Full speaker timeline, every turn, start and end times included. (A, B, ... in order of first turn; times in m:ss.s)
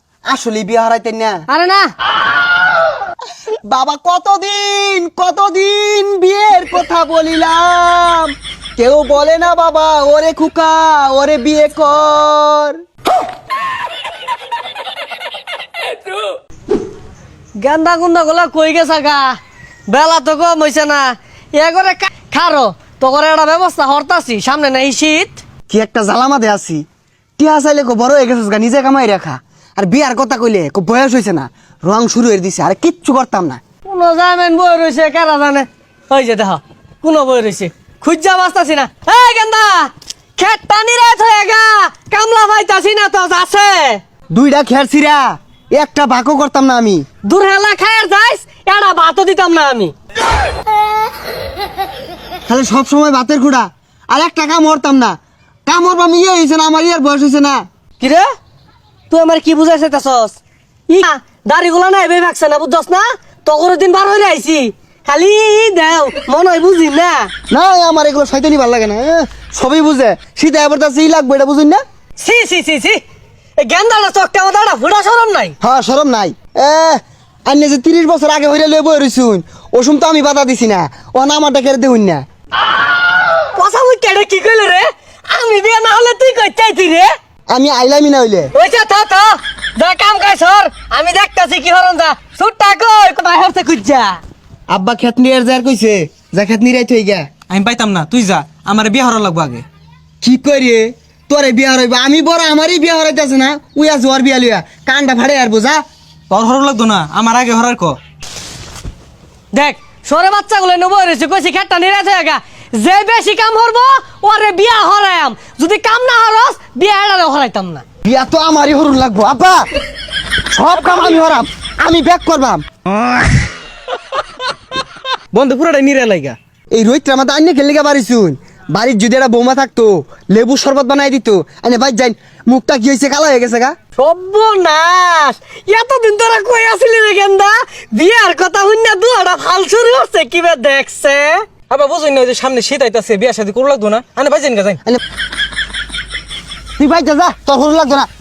0:00.3-0:01.4 A
0:01.5-0:01.9 B
0:03.7-0:12.8 A
0:17.6-0:19.4 B
0:19.9-0:25.4 B
0:25.7-0:26.8 A
0:27.4-0:33.6 A
0:33.8-0:44.0 B
0:44.3-0:47.0 A
0:47.3-0:49.9 B
0:52.5-0:55.2 A
0:55.7-0:57.6 A
0:58.0-0:58.3 B
0:59.1-1:00.4 B
1:00.9-1:07.3 B
1:07.5-1:11.8 A
1:12.2-1:13.0 B
1:13.6-1:15.6 B
1:15.6-1:22.2 A
1:23.5-1:27.1 B
1:27.5-1:28.5 A
1:28.5-1:34.2 B
1:34.7-1:37.3 A
1:37.5-1:39.6 C
1:40.2-1:45.8 A
1:46.3-1:48.0 C
1:49.5-1:57.8 B
1:58.0-1:59.7 A
2:00.5-2:02.6 A
2:05.3-2:06.4 C
2:06.7-2:13.8 A
2:14.0-2:21.5 B
2:21.7-2:24.8 C
2:26.8-2:28.1 A